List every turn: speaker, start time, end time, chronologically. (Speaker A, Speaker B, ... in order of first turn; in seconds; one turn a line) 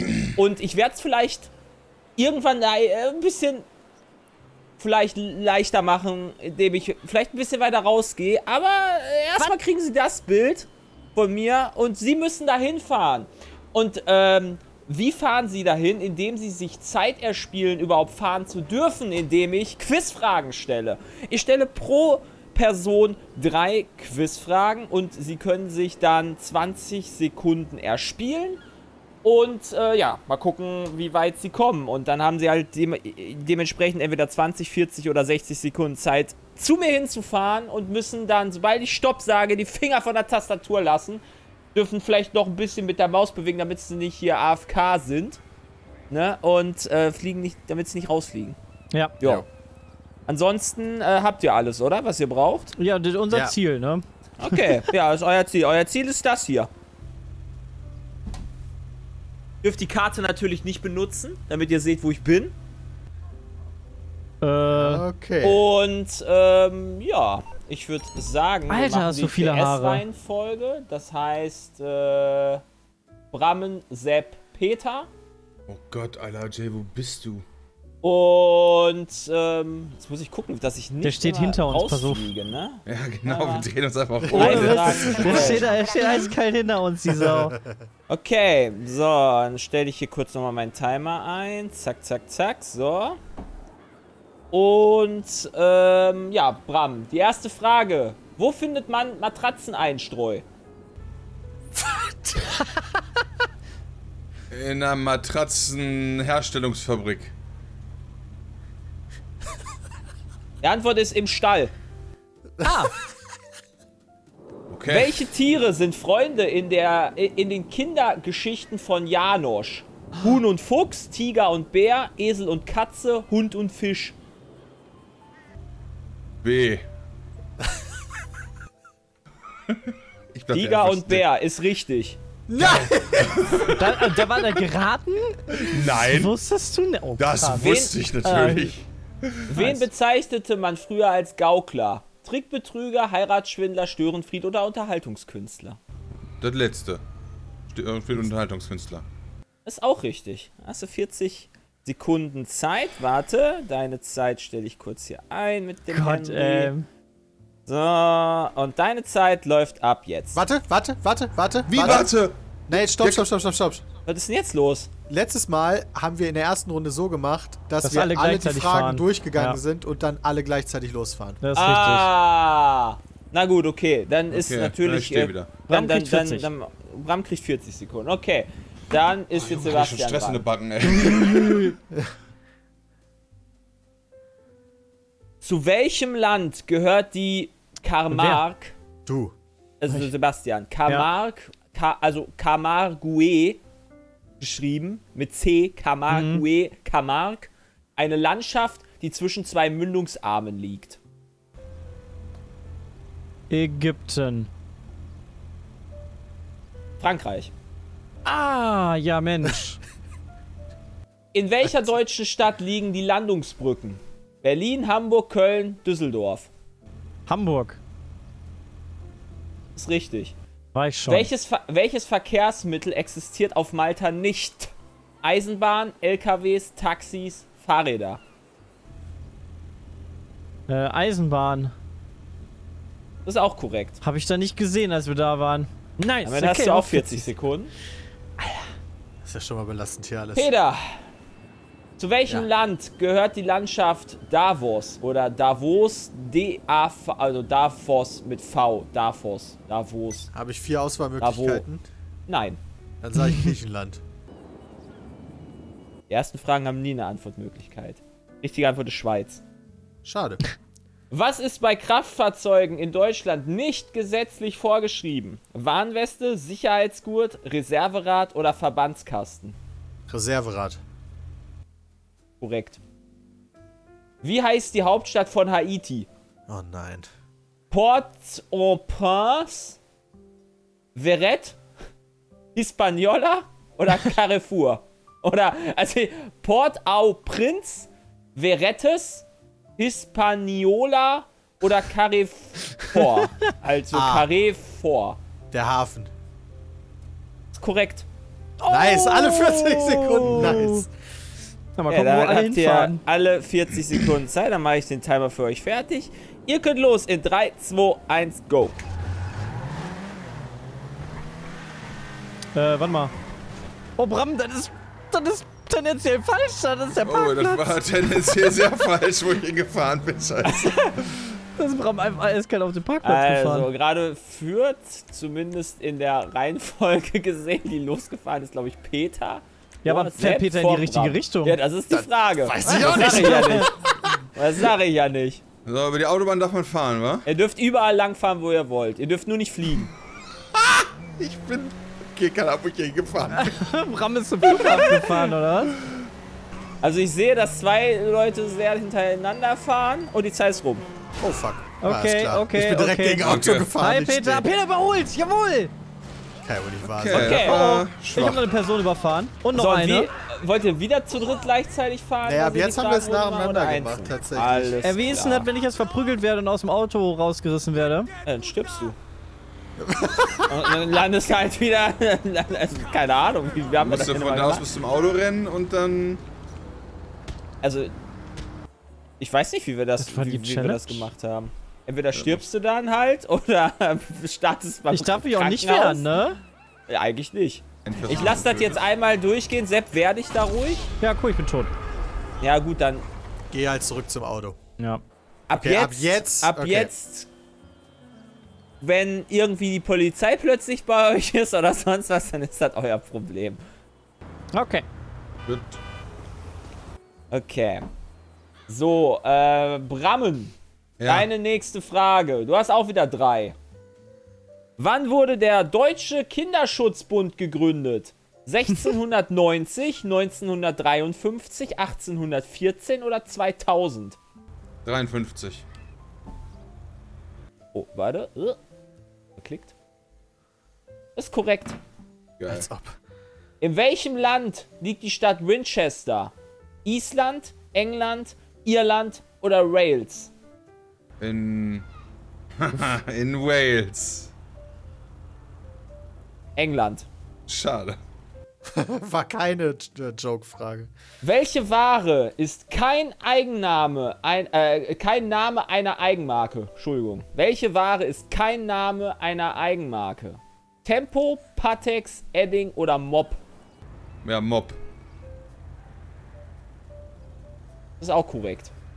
Speaker A: 0.2-1.5
Speaker A: 2.2-3.6
Speaker A: 4.8-28.6
Speaker A: 29.2-41.2
Speaker A: 41.7-45.4
Speaker A: 46.1-48.6
Speaker B: 48.9-49.2
Speaker A: 49.2-49.5
Speaker A: 50.3-52.7
Speaker B: 52.8-54.6
Speaker C: 53.3-53.5
Speaker A: 54.4-56.7
Speaker A: 59.6-62.5
Speaker B: 64.4-65.0
Speaker C: 64.7-65.6
Speaker A: 65.4-72.6
Speaker B: 68.7-70.0
Speaker A: 73.3-75.1
Speaker D: 75.7-77.4
Speaker A: 78.0-83.7
Speaker B: 81.0-82.3
Speaker D: 82.8-85.6
Speaker C: 84.2-85.6
Speaker B: 84.3-87.5
Speaker A: 84.3-85.7
Speaker C: 87.1-87.8
Speaker A: 88.1-93.2
Speaker A: 94.5-100.4
Speaker D: 104.5-107.3
Speaker A: 110.6-111.7
Speaker C: 112.6-112.8
Speaker B: 112.6-112.9
Speaker D: 114.7-115.3
Speaker A: 114.9-124.2
Speaker D: 126.4-126.8
Speaker D: 130.3-131.2
Speaker A: 130.5-132.2
Speaker C: 132.5-133.7
Speaker D: 132.6-133.8
Speaker B: 133.7-137.7
Speaker D: 135.6-136.3
Speaker D: 137.2-139.4
Speaker A: 137.6-137.9
Speaker B: 138.2-138.7
Speaker A: 139.5-145.8
Speaker B: 139.5-139.8
Speaker D: 146.4-147.0
Speaker D: 147.7-149.0
Speaker A: 149.6-156.7
Speaker B: 155.9-156.8
Speaker A: 157.7-160.4
Speaker C: 160.3-162.1
Speaker D: 161.7-163.2
Speaker C: 162.7-163.8
Speaker A: 164.1-164.9
Speaker C: 165.1-171.4
Speaker B: 167.8-169.6
Speaker B: 171.4-172.1
Speaker A: 171.5-180.4
Speaker D: 174.3-175.5
Speaker B: 175.7-176.5
Speaker D: 179.3-181.7
Speaker B: 180.9-181.8
Speaker A: 185.4-188.7
Speaker B: 188.1-188.4
Speaker C: 189.1-189.3
Speaker A: 189.8-193.6
Speaker A: 194.4-201.0
Speaker B: 196.1-196.4
Speaker B: 203.5-204.5
Speaker A: 207.0-207.5
Speaker B: 208.2-209.8
Speaker A: 211.3-216.5
Speaker B: 217.3-217.8
Speaker A: 219.7-220.3
Speaker B: 220.7-221.3
Speaker A: 221.1-228.2
Speaker B: 230.7-231.7
Speaker A: 233.2-234.0
Speaker B: 234.0-237.3
Speaker A: 236.2-237.7
Speaker B: 238.4-238.7
Speaker C: 239.2-240.5
Speaker A: 240.3-241.0
Speaker A: 242.0-250.3
Speaker C: 250.3-251.8
Speaker A: 251.2-251.6
Speaker A: 252.3-252.6
Speaker C: 253.0-254.0
Speaker A: 256.1-259.4
Speaker C: 260.0-260.4
Speaker A: 261.1-269.6
Speaker C: 270.1-270.8
Speaker A: 272.4-272.8
Speaker A: 274.2-276.1
Speaker C: 276.5-277.1
Speaker A: 277.7-279.8
Speaker A: 280.9-281.6
Speaker A: 282.5-289.2
Speaker A: 289.8-295.2
Speaker C: 293.9-294.3
Speaker C: 295.5-296.1
Speaker A: 297.5-298.1
Speaker B: 298.6-300.9
Speaker C: 298.7-300.9
Speaker B: 301.8-303.0
Speaker A: 301.9-308.8
Speaker B: 312.5-313.1
Speaker B: 314.0-317.6
Speaker D: 317.0-321.4
Speaker A: 320.4-320.9
Speaker B: 321.6-323.7
Speaker A: 323.0-335.4
Speaker B: 329.8-331.6
Speaker C: 331.9-334.2
Speaker B: 332.6-333.7
Speaker D: 335.6-337.2
Speaker A: 337.2-339.9
Speaker D: 340.6-343.6
Speaker B: 343.3-345.8
Speaker D: 344.6-345.1
Speaker A: 346.8-350.9
Speaker C: 351.2-354.4
Speaker B: 351.8-355.7
Speaker D: 353.2-353.7
Speaker C: 356.4-357.5
Speaker D: 356.9-358.4
Speaker A: 357.1-357.6
Speaker B: 357.3-360.1
Speaker A: 359.5-365.5
Speaker C: 362.2-364.8
Speaker B: 364.8-368.1
Speaker A: 368.2-368.9
Speaker C: 369.8-370.7
Speaker A: 370.5-374.6
Speaker D: 373.8-376.2
Speaker A: 377.6-377.9
Speaker A: 379.2-386.1
Speaker B: 380.0-381.1
Speaker B: 384.9-386.4
Speaker A: 386.9-390.8
Speaker D: 387.8-388.8
Speaker B: 391.0-391.7
Speaker A: 392.4-393.1
Speaker C: 393.5-394.6
Speaker A: 395.5-397.3
Speaker C: 395.5-396.9
Speaker A: 398.8-403.6
Speaker B: 404.5-404.9
Speaker D: 405.4-405.8
Speaker A: 407.3-407.9
Speaker A: 408.7-413.6
Speaker D: 411.0-411.3
Speaker A: 414.8-424.2
Speaker D: 424.8-425.6
Speaker A: 427.7-428.6
Speaker A: 429.4-429.7
Speaker A: 431.1-431.8
Speaker D: 432.4-432.7
Speaker C: 432.5-433.0
Speaker A: 433.6-436.3
Speaker A: 436.8-440.3
Speaker D: 441.2-441.9
Speaker D: 442.6-444.3
Speaker A: 446.6-447.1
Speaker D: 447.5-448.0
Speaker C: 448.6-450.9
Speaker A: 451.2-463.4
Speaker D: 464.2-464.8
Speaker A: 468.0-468.7